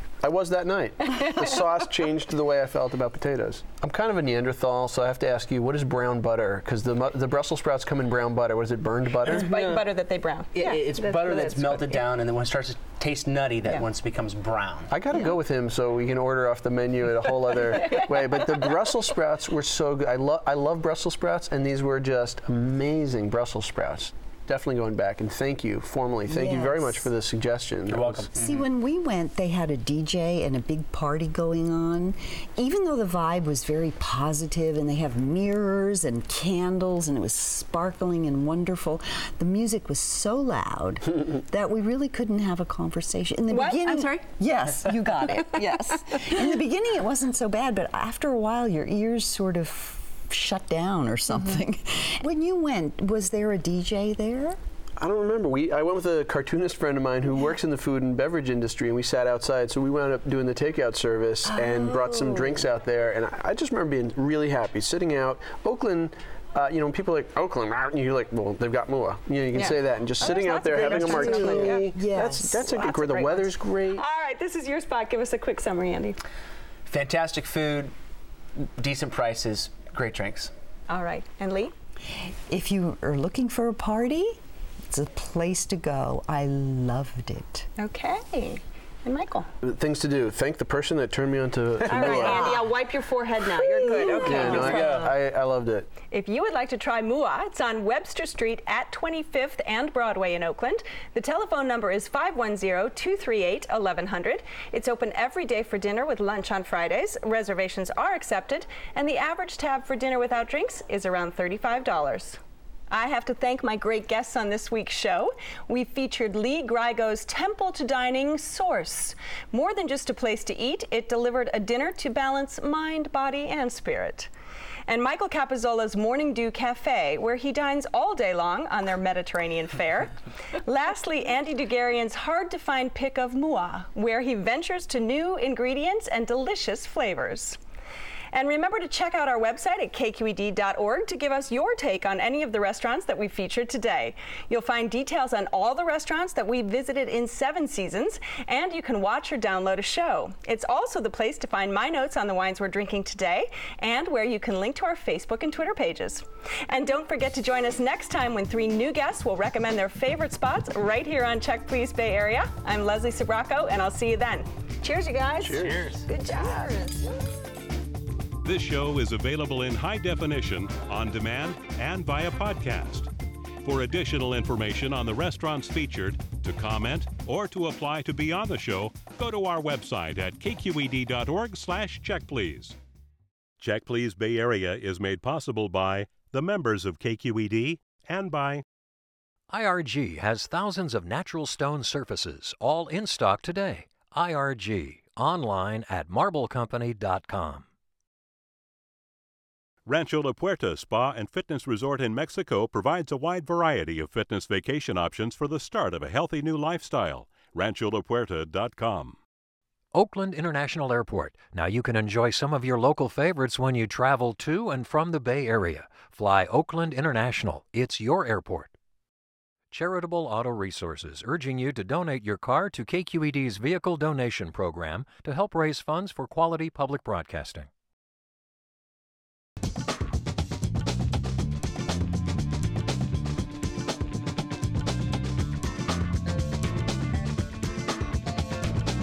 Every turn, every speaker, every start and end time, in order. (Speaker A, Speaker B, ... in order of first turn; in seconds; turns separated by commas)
Speaker A: 0.2-9.6, Speaker B: 9.2-12.0, Speaker C: 9.3-9.8, Speaker C: 10.5-14.9, Speaker A: 14.9-28.3, Speaker D: 26.3-27.0, Speaker C: 27.9-28.6, Speaker D: 28.3-54.6, Speaker B: 43.5-44.2, Speaker B: 45.2-46.2, Speaker A: 55.0-74.0, Speaker D: 61.5-62.7, Speaker B: 69.5-71.9, Speaker D: 70.2-73.3, Speaker B: 72.8-76.2, Speaker C: 76.8-77.9, Speaker C: 78.5-80.5, Speaker B: 80.9-81.7, Speaker D: 82.1-84.4, Speaker D: 84.9-87.7, Speaker B: 87.8-89.5, Speaker A: 89.6-92.6, Speaker B: 91.8-95.1, Speaker D: 92.0-92.7, Speaker D: 93.8-94.7, Speaker A: 94.2-95.9, Speaker C: 94.3-95.1, Speaker B: 96.1-112.4, Speaker B: 112.9-124.3, Speaker B: 124.9-137.6, Speaker B: 138.3-167.2, Speaker A: 165.4-165.8, Speaker C: 165.5-166.1, Speaker E: 168.4-173.1, Speaker E: 173.6-182.8, Speaker E: 183.6-188.6, Speaker F: 189.5-197.6, Speaker E: 199.8-209.2, Speaker F: 209.9-218.7, Speaker F: 219.7-227.7